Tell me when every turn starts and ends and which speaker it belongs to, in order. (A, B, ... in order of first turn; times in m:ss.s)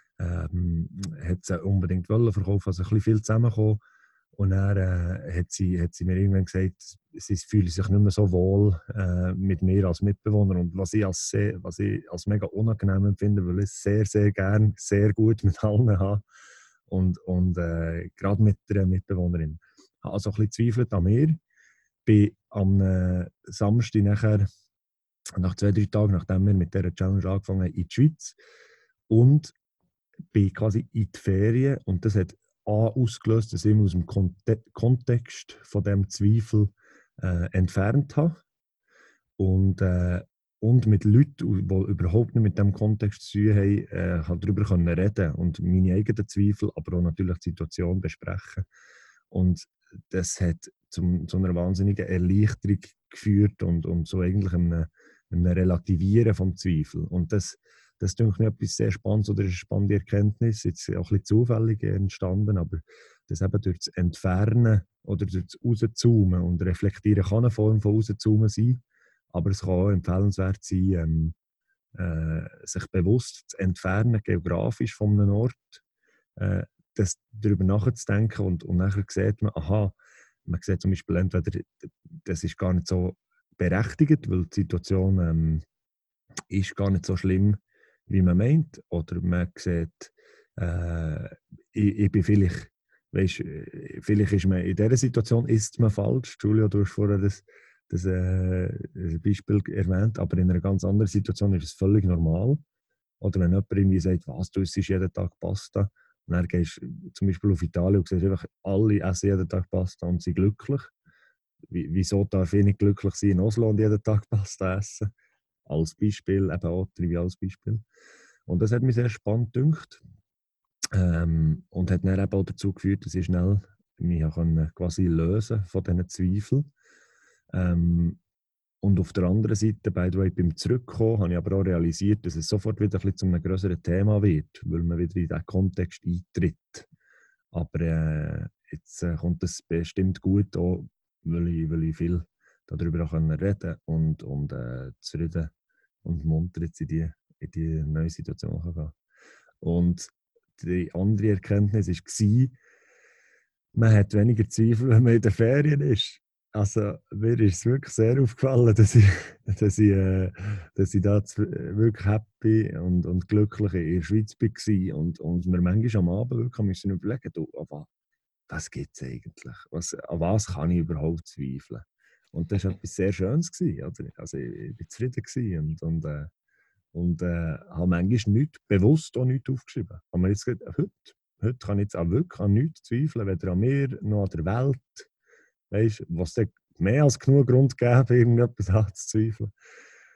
0:00.2-0:03.8 A
0:04.4-0:16.2 A
0:16.9-0:21.4 A
0:22.1-0:24.5 A
0:25.4-0:28.4 A
0:29.1-0:29.5 A
0:30.3-0:38.4 A
0:39.4-0:48.7 A
0:49.3-1:08.8 A
1:09.3-1:11.4 A
1:12.0-1:15.8 A
1:16.4-1:25.6 A
1:26.5-1:42.6 A
1:43.2-1:50.9 A
1:51.7-1:55.1 A
1:55.7-1:57.8 A
1:58.5-2:00.0 A
2:00.9-2:06.7 A
2:07.5-2:08.2 A
2:08.8-2:16.9 A
2:17.5-2:25.5 A
2:26.0-2:29.0 A
2:29.6-2:32.6 A
2:33.8-2:47.9 A
2:48.5-2:56.3 A
2:56.9-3:05.1 A
3:05.7-3:09.5 A